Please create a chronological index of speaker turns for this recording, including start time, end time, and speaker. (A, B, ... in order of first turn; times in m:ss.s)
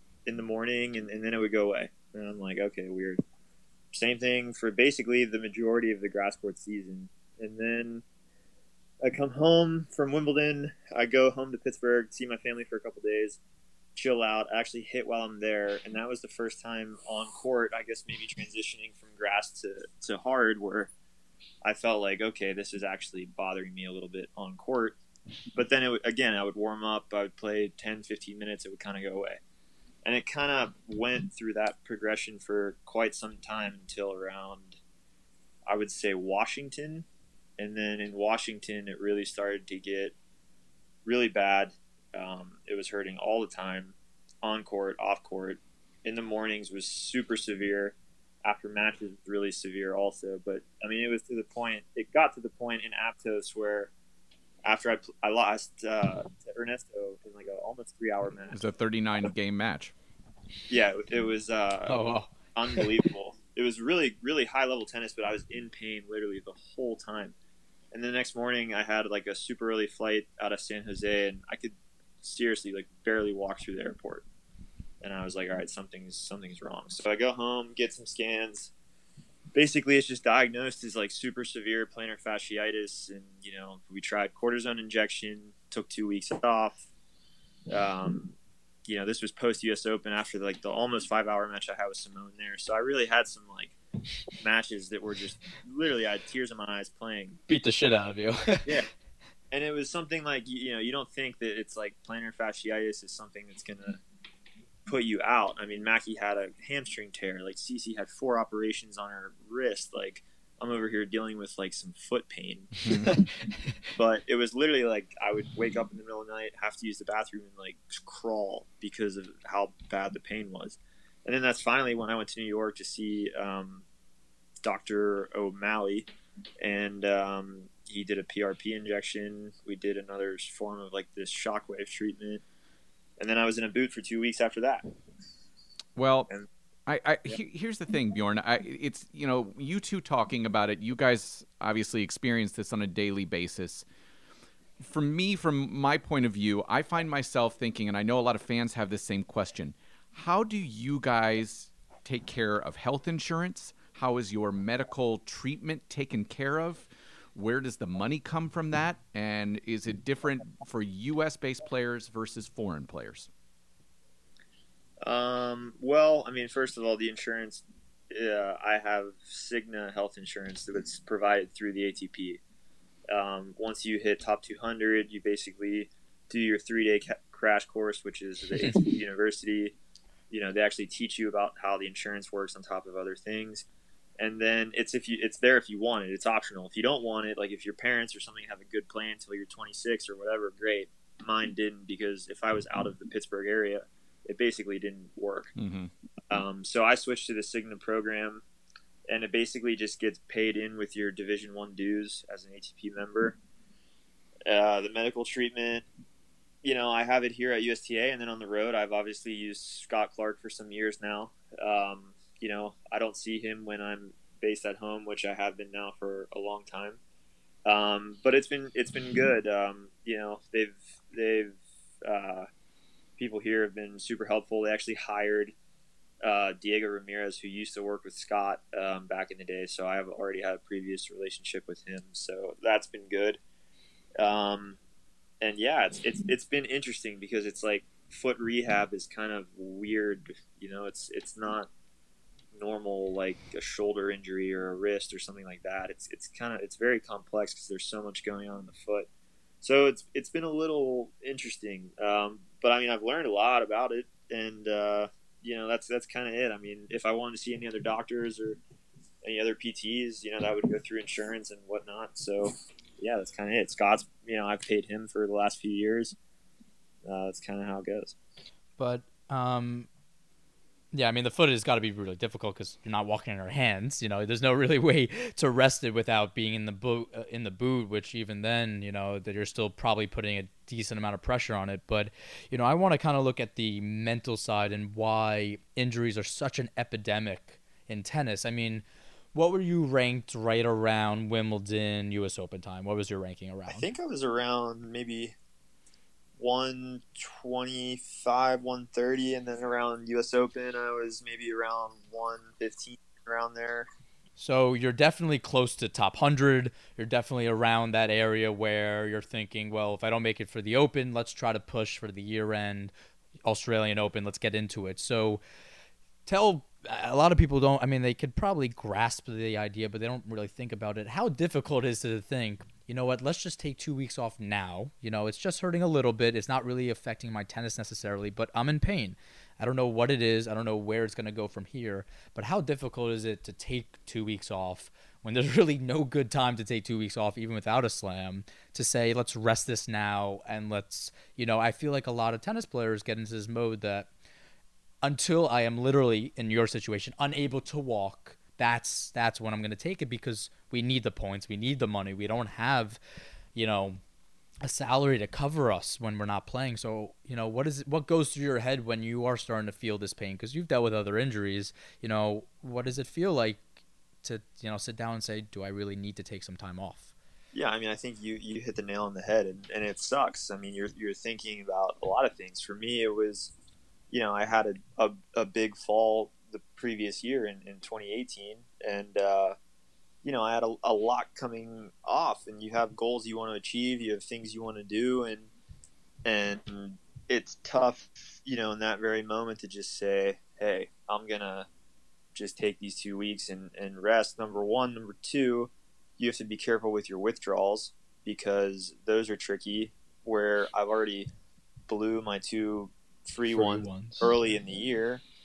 0:00.3-0:03.2 A
0:03.9-0:08.0 A
0:09.0-0:13.4 A
0:14.0-0:20.9 A
0:21.6-0:25.0 A
0:25.6-0:29.4 A
0:30.0-0:34.8 A
0:35.7-0:37.0 A
0:37.6-0:40.2 A
0:41.0-0:53.9 A
0:54.6-0:58.6 A
0:58.5-0:59.9 B
1:00.7-1:02.0 A
1:01.9-1:02.9 C
1:02.6-1:07.4 A
1:07.9-1:14.2 A
1:15.0-1:18.7 A
1:19.5-1:26.9 A
1:27.7-1:28.4 A
1:28.9-1:33.8 A
1:34.4-1:37.4 A
1:37.5-1:38.8 C
1:39.5-1:44.0 A
1:44.9-1:52.9 A
1:52.9-1:53.7 C
1:54.0-2:03.8 A
2:04.6-2:06.1 A
2:06.6-2:12.4 A
2:13.2-2:14.9 A
2:16.0-2:16.3 B
2:16.9-2:23.8 B
2:24.8-2:43.3 B
2:45.0-2:52.4 A
2:53.1-2:59.8 A
3:00.3-3:03.6 A
3:04.2-3:15.5 A
3:15.6-3:15.9 B
3:16.3-3:18.4 A
3:19.1-3:23.4 A
3:24.5-3:25.8 A
3:26.6-3:37.0 A
3:37.6-3:42.5 A
3:43.2-3:45.6 A
3:46.2-3:53.4 A
3:54.2-3:54.8 A
3:55.4-4:01.7 A
4:02.5-4:09.1 A
4:09.6-4:18.6 A
4:19.2-4:26.2 A
4:27.0-4:28.2 A
4:28.8-4:29.9 C
4:30.9-4:53.9 C
4:53.7-4:55.4 A
4:56.4-5:03.9 A
5:04.4-5:12.9 C
5:13.4-5:15.4 C
5:16.3-5:44.1 C
5:45.0-5:53.0 C
5:53.6-5:54.0 C
5:54.6-6:03.6 C
6:04.2-6:07.1 C
6:07.5-6:13.5 A
6:14.1-6:19.6 A
6:20.2-6:25.5 A
6:26.2-6:31.7 A
6:32.3-6:41.3 A
6:41.9-6:45.2 A
6:43.5-6:44.3 C